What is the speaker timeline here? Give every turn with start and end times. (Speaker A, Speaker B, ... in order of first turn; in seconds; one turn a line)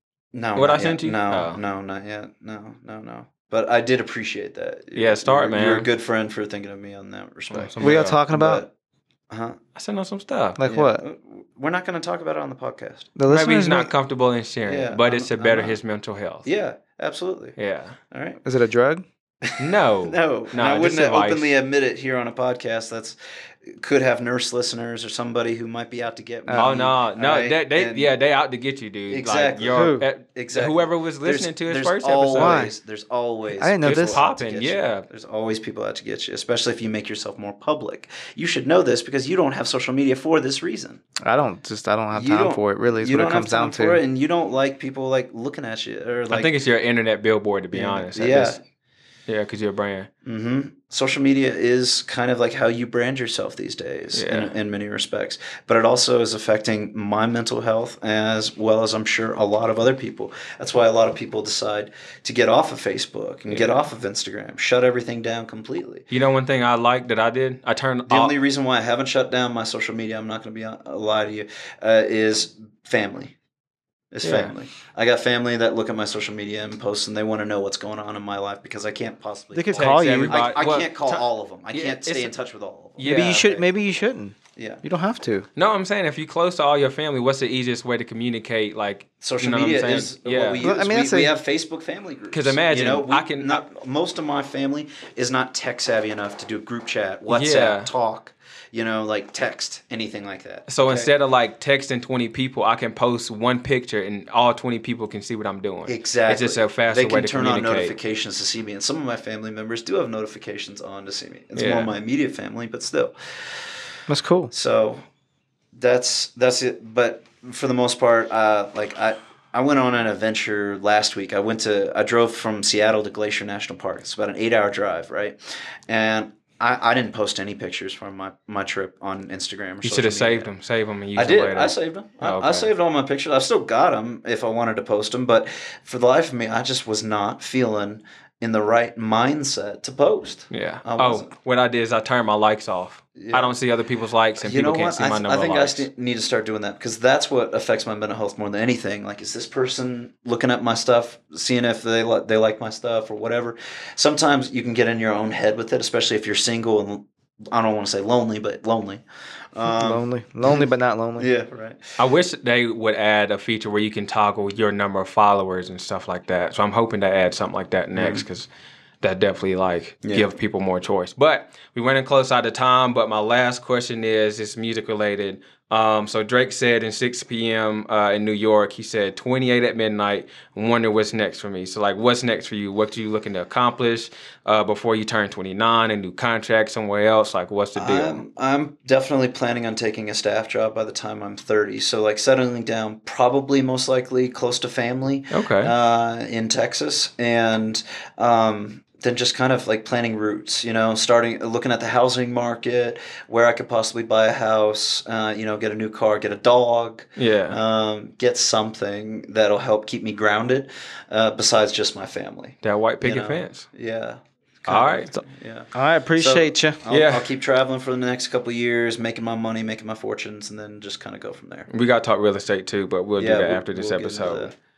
Speaker A: 0.3-8.7
Speaker B: 0.6-1.6
Speaker B: 4.9-5.9
Speaker B: 7.5-8.2
Speaker C: 7.8-8.6
Speaker A: 9.3-9.6
Speaker B: 9.8-10.6
Speaker C: 10.6-11.0
Speaker A: 10.6-13.1
Speaker C: 13.2-13.9
Speaker B: 13.3-16.4
Speaker A: 14.6-15.8
Speaker A: 16.4-17.6
Speaker B: 17.6-18.0
Speaker A: 18.1-18.4
Speaker C: 18.4-19.0
Speaker A: 19.4-28.1
Speaker B: 19.6-21.5
Speaker C: 26.5-26.7
Speaker B: 26.5-32.7
Speaker A: 29.1-41.0
Speaker C: 29.7-30.0
Speaker C: 32.4-32.7
Speaker C: 33.6-34.2
Speaker B: 33.8-35.0
Speaker C: 41.2-44.0
Speaker A: 42.1-46.5
Speaker B: 46.3-48.6
Speaker A: 47.7-48.6
Speaker B: 49.3-50.1
Speaker A: 50.2-66.0
Speaker B: 54.1-54.5
Speaker B: 66.1-68.3
Speaker A: 68.1-73.3
Speaker A: 74.1-83.6
Speaker C: 74.2-74.5
Speaker C: 79.5-80.4
Speaker B: 79.7-82.3
Speaker B: 83.0-83.5
Speaker C: 83.0-85.5
Speaker A: 84.5-84.8
Speaker B: 85.5-90.6
Speaker A: 89.2-101.1
Speaker C: 90.6-91.3
Speaker B: 92.3-93.6
Speaker B: 97.3-97.9
Speaker B: 100.7-107.9
Speaker A: 105.8-113.1
Speaker B: 111.5-111.9
Speaker C: 114.1-114.5
Speaker A: 114.5-115.0
Speaker A: 115.7-130.5
Speaker B: 129.8-132.7
Speaker A: 131.1-141.3
Speaker B: 140.5-145.8
Speaker A: 143.2-143.6
Speaker A: 144.4-160.6
Speaker C: 159.6-161.3
Speaker A: 161.2-161.8
Speaker B: 162.0-168.5
Speaker A: 167.9-168.2
Speaker B: 169.0-188.2
Speaker A: 170.0-170.3
Speaker A: 187.8-221.7
Speaker B: 195.3-195.7
Speaker B: 207.2-207.6
Speaker B: 212.6-213.7
Speaker B: 214.7-215.2
Speaker C: 215.7-216.8
Speaker B: 216.9-217.3
Speaker B: 221.7-224.5
Speaker A: 223.2-224.5